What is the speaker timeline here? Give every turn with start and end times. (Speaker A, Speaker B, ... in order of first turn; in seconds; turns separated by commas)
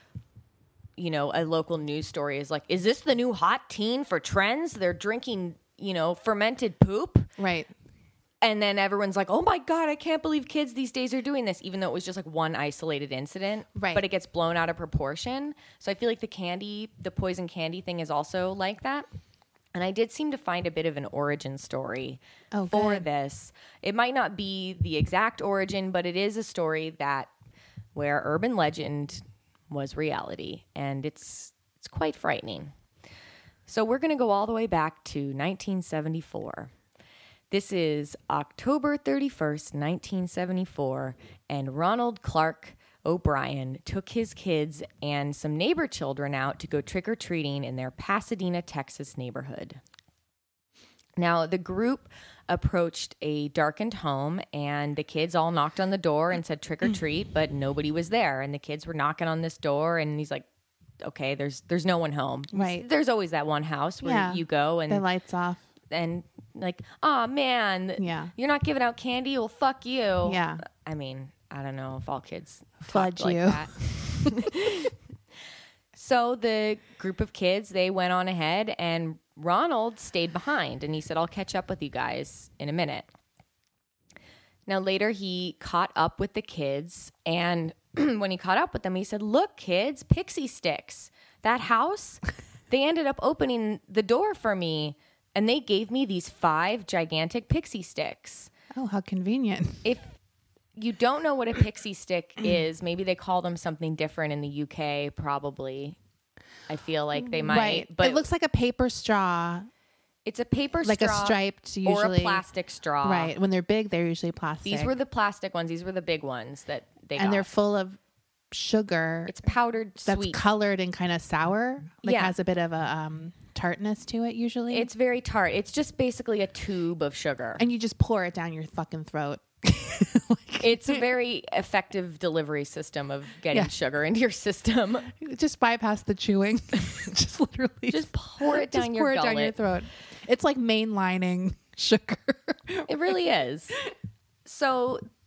Speaker A: 1.0-7.3, Speaker B: 7.4-7.7, Speaker A: 8.4-19.1, Speaker B: 13.8-14.0, Speaker A: 19.8-27.3, Speaker B: 22.5-23.1, Speaker A: 27.9-32.7, Speaker A: 33.7-36.7, Speaker A: 37.5-49.8, Speaker A: 51.2-60.5, Speaker A: 61.0-65.0, Speaker B: 62.5-62.9, Speaker B: 64.0-65.6, Speaker A: 65.9-74.9, Speaker B: 68.0-68.3, Speaker B: 70.2-70.6, Speaker B: 72.8-74.5, Speaker A: 76.0-83.1, Speaker A: 84.7-98.5, Speaker B: 98.7-99.8, Speaker A: 99.8-100.1, Speaker A: 100.8-106.0, Speaker A: 106.7-108.3, Speaker B: 107.2-109.7, Speaker A: 110.3-113.3, Speaker B: 110.8-112.4, Speaker B: 113.0-114.9, Speaker A: 114.7-117.5, Speaker B: 117.2-118.0, Speaker B: 118.5-119.4, Speaker A: 119.3-120.4, Speaker B: 120.0-124.9, Speaker A: 122.0-122.3, Speaker A: 124.7-127.7, Speaker B: 127.6-131.0, Speaker A: 130.6-135.1, Speaker B: 135.1-142.9, Speaker A: 137.9-139.6, Speaker A: 142.9-143.8, Speaker A: 144.4-145.0